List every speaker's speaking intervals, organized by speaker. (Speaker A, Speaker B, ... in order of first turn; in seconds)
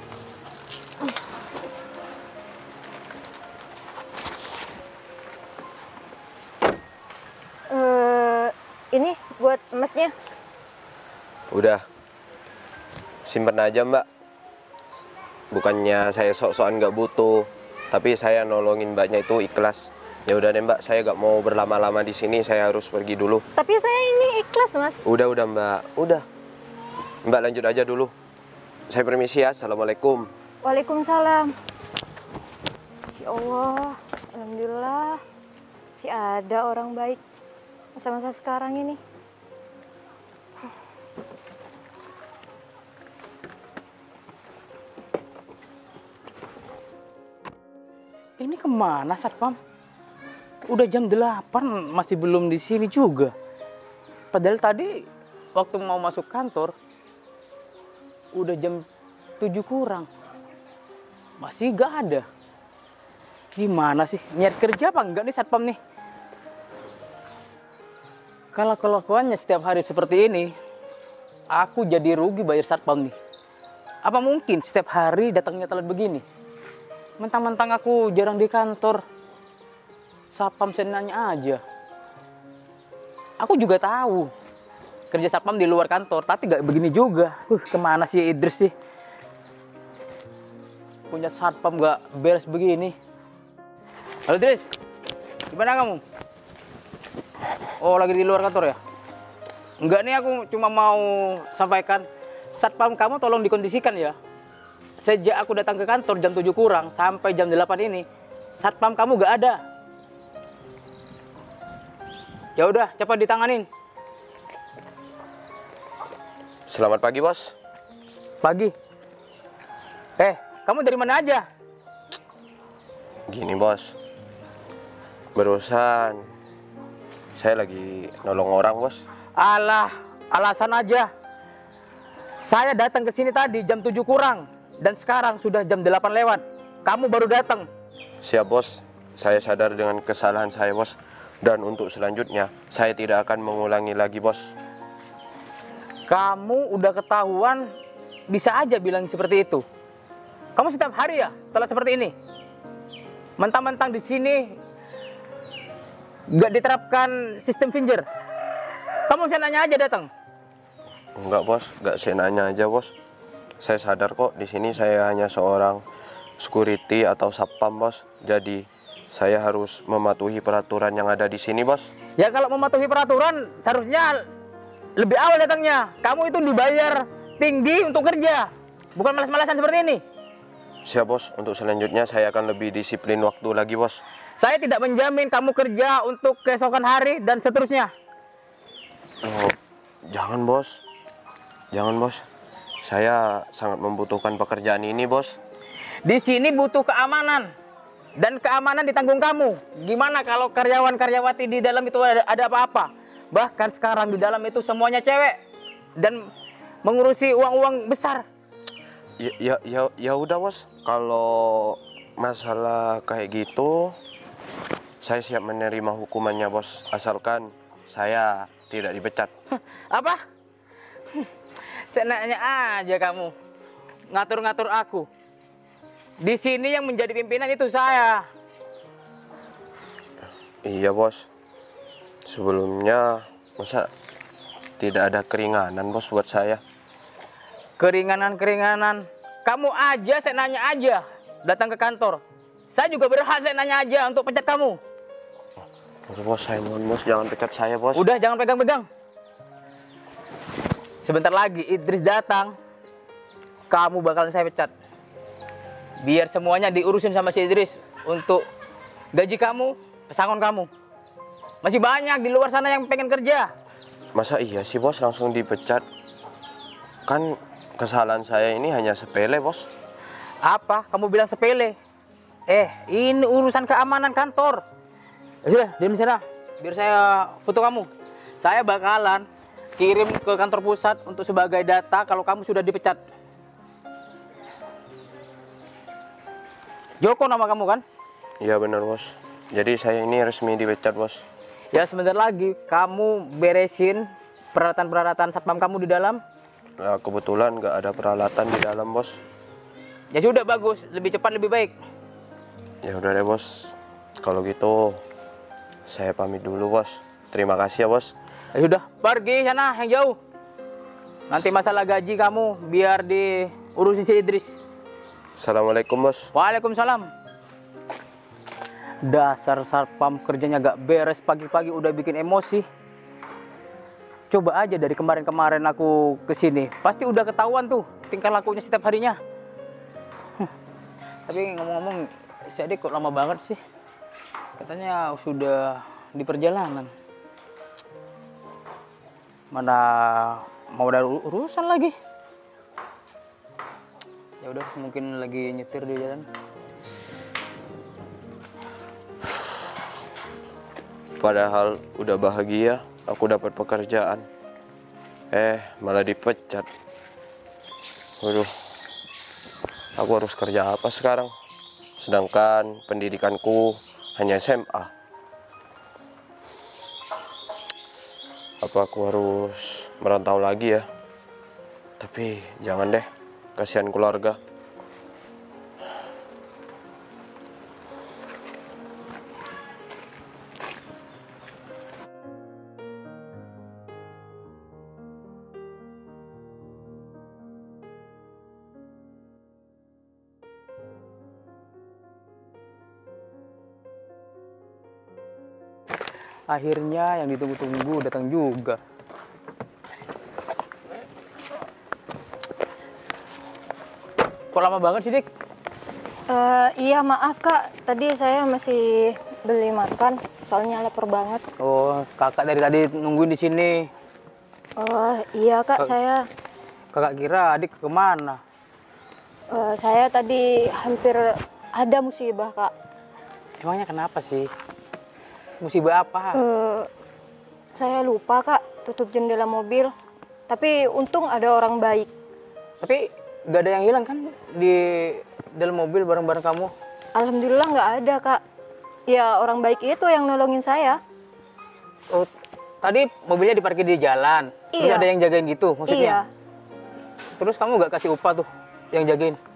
Speaker A: 7.7-10.1, 23.6-25.0, 30.6-31.5, 33.2-35.2, 36.0-37.2, 38.0-39.0, 406.3-411.4, 414.8-416.2, 419.5-422.7, 426.3-426.9, 427.7-429.9, 430.5-432.1, 437.1-438.4, 439.1-441.0, 444.7-445.1, 445.9-446.2
Speaker B: 11.5-11.8, 13.2-14.0, 15.5-23.4, 25.0-26.2, 27.2-28.1, 28.9-30.3, 116.7-117.5, 123.3-124.0, 125.3-126.3, 127.3-129.0, 138.2-144.5, 161.2-162.9, 163.6-165.8, 166.4-171.9, 180.8-184.0, 189.2-189.6, 190.1-190.8, 191.7-192.2, 192.8-195.4, 209.2-213.9, 215.0-219.3, 230.6-231.3, 232.2-233.9, 234.8-236.6, 246.1-248.0, 264.1-265.8, 267.1-269.7, 288.4-291.2, 296.8-299.2, 302.8-305.0, 305.9-308.1, 315.4-316.3, 351.2-354.2, 355.3-356.7, 358.2-358.5, 360.0-361.3, 362.0-364.9, 368.6-370.9, 372.0-373.0, 373.6-374.4
Speaker C: 48.4-49.6, 50.7-53.3, 54.3-54.9, 55.5-56.7, 58.3-58.8, 59.4-60.1, 61.4-62.2, 63.5-65.8, 68.5-70.5, 71.5-73.1, 74.0-76.2, 77.2-79.0, 80.3-81.6, 83.4-84.3, 85.1-88.7, 91.1-92.9, 94.3-94.7, 95.5-96.0, 97.8-98.8, 99.8-104.2, 105.0-108.0, 108.6-109.6, 112.6-113.7, 118.4-118.7, 120.2-121.4, 129.4-131.1, 132.4-137.7, 146.1-147.6, 148.3-149.6, 150.6-152.1, 153.4-154.6, 156.3-158.0, 159.1-160.1, 172.2-174.2, 175.0-180.0, 184.4-187.9, 196.0-197.5, 198.2-205.4, 206.0-206.3, 206.8-208.2, 219.5-220.2, 221.9-223.3, 224.1-225.1, 226.2-228.2, 237.8-244.8, 247.9-248.8, 251.0-252.5, 253.7-254.7, 256.0-258.4, 259.1-260.7, 261.6-263.5, 270.4-271.8, 272.5-274.6, 275.4-277.9, 278.4-279.2, 279.8-283.0, 287.0-287.8, 291.7-296.2, 300.1-301.7, 308.5-310.2, 311.3-314.5, 316.3-317.1, 319.0-322.6, 324.3-329.2, 331.3-333.6, 334.6-336.9, 339.5-341.9, 344.4-346.2, 396.5-398.8, 404.5-405.3, 411.6-413.9, 416.9-418.4, 423.6-424.5, 425.6-426.4, 432.8-436.7, 442.8-446.2, 447.4-449.4